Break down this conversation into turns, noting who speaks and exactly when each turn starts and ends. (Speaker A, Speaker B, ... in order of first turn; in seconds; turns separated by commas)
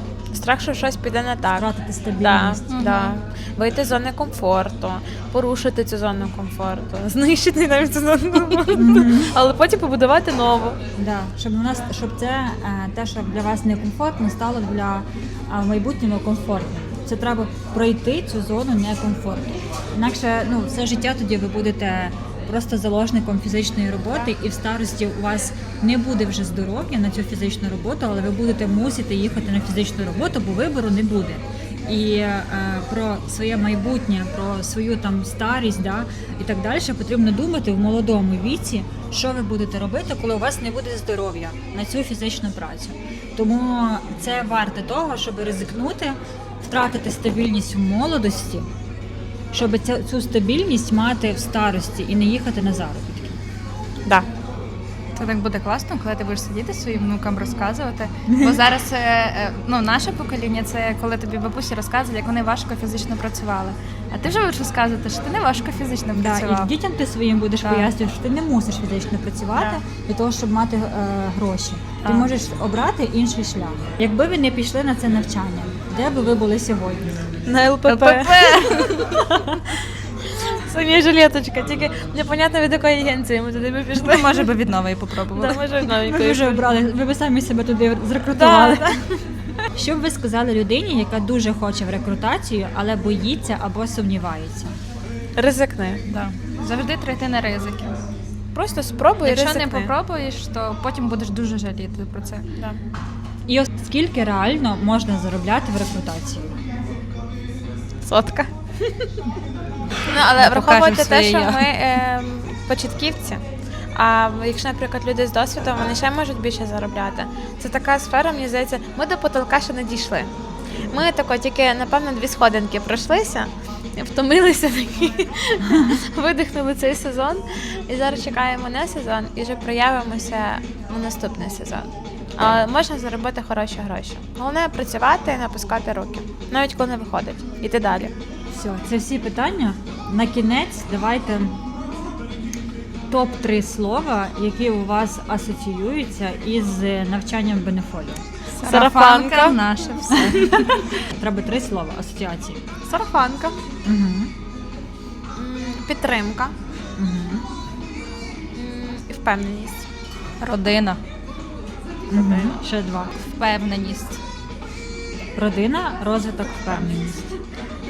Speaker A: 0.3-1.7, Speaker B: 1.6-2.9, Speaker A: 2.2-10.8, Speaker C: 2.7-3.2, Speaker B: 8.7-9.3, Speaker B: 11.0-48.7, Speaker B: 49.5-53.4, Speaker C: 55.2-66.7, Speaker B: 58.3-58.6, Speaker B: 66.1-77.2, Speaker C: 67.6-67.9, Speaker A: 69.6-69.8, Speaker C: 72.0-72.3, Speaker A: 77.5-78.8, Speaker C: 77.8-79.2, Speaker B: 79.3-79.6, Speaker A: 80.3-84.5, Speaker C: 83.9-85.9, Speaker A: 85.2-86.7, Speaker B: 86.0-88.9, Speaker A: 88.3-89.2, Speaker B: 89.8-94.8, Speaker A: 95.4-96.0, Speaker C: 96.1-98.0, Speaker A: 98.5-99.9, Speaker C: 99.2-102.5, Speaker B: 103.5-106.5, Speaker A: 108.0-109.1, Speaker A: 110.1-113.4, Speaker C: 110.4-111.7, Speaker A: 114.0-120.3, Speaker A: 120.9-138.1, Speaker B: 138.5-141.6, Speaker B: 143.1-148.2, Speaker C: 148.6-150.8, Speaker A: 148.6-149.8, Speaker B: 150.1-152.6, Speaker A: 152.9-153.6, Speaker B: 153.8-154.3, Speaker A: 155.4-156.5, Speaker B: 157.0-157.5, Speaker A: 158.6-159.9, Speaker C: 160.4-161.0, Speaker B: 162.1-163.2, Speaker A: 162.1-162.6, Speaker C: 163.2-164.2, Speaker B: 165.4-167.3